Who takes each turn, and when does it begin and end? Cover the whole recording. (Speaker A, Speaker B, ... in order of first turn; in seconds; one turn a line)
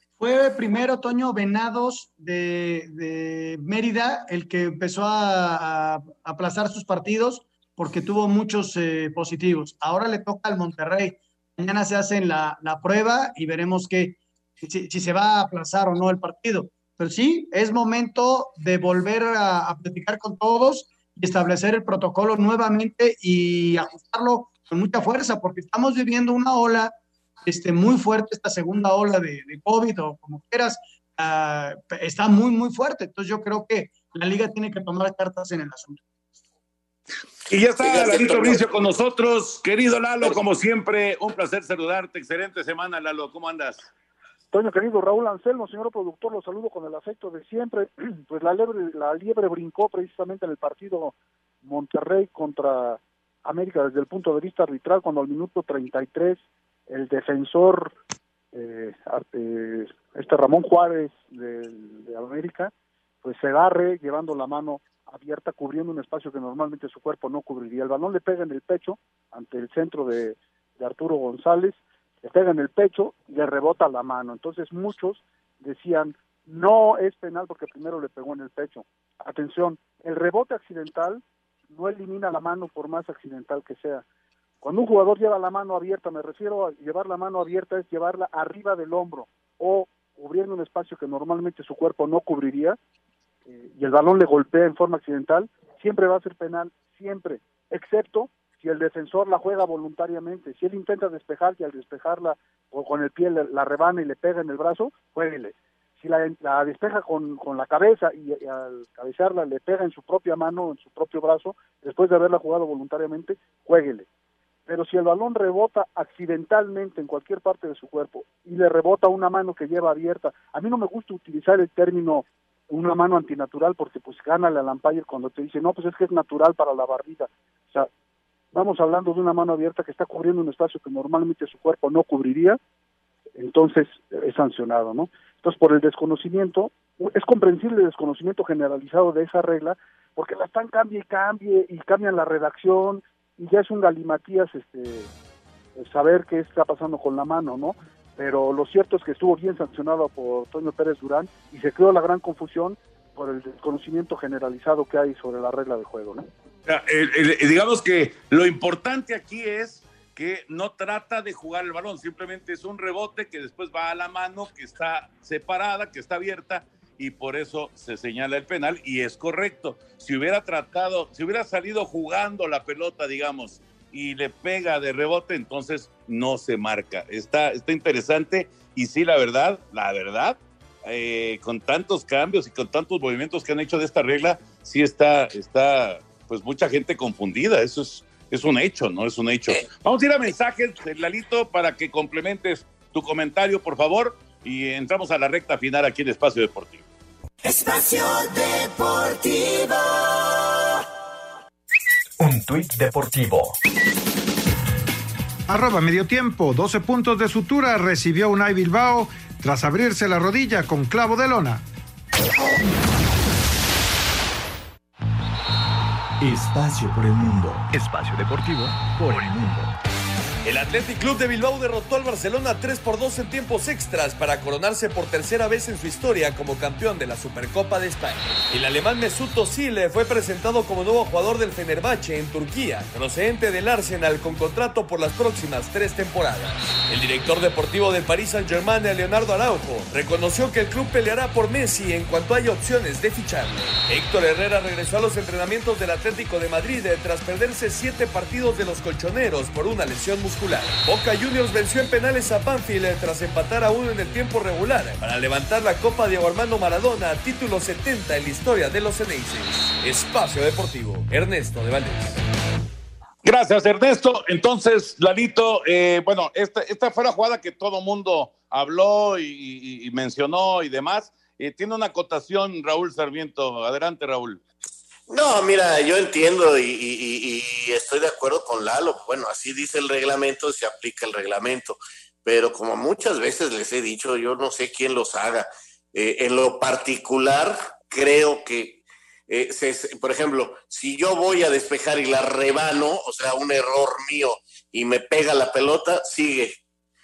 Speaker A: 0.2-26.9
Speaker A: 27.4-36.0
Speaker B: 37.5-43.9
Speaker C: 37.8-38.7
Speaker D: 44.5-57.9
Speaker D: 58.5-62.7
Speaker D: 63.2-84.0
Speaker D: 84.6-92.8
Speaker D: 93.5-114.1
Speaker D: 114.7-127.9
Speaker D: 128.5-132.6
Speaker D: 133.4-145.1
Speaker D: 145.8-156.3
Speaker B: 156.7-196.8
Speaker E: 202.2-203.6
Speaker F: 205.5-211.6
Speaker E: 216.2-219.7
Speaker G: 220.4-262.2
Speaker B: 263.2-274.4
Speaker C: 275.1-296.5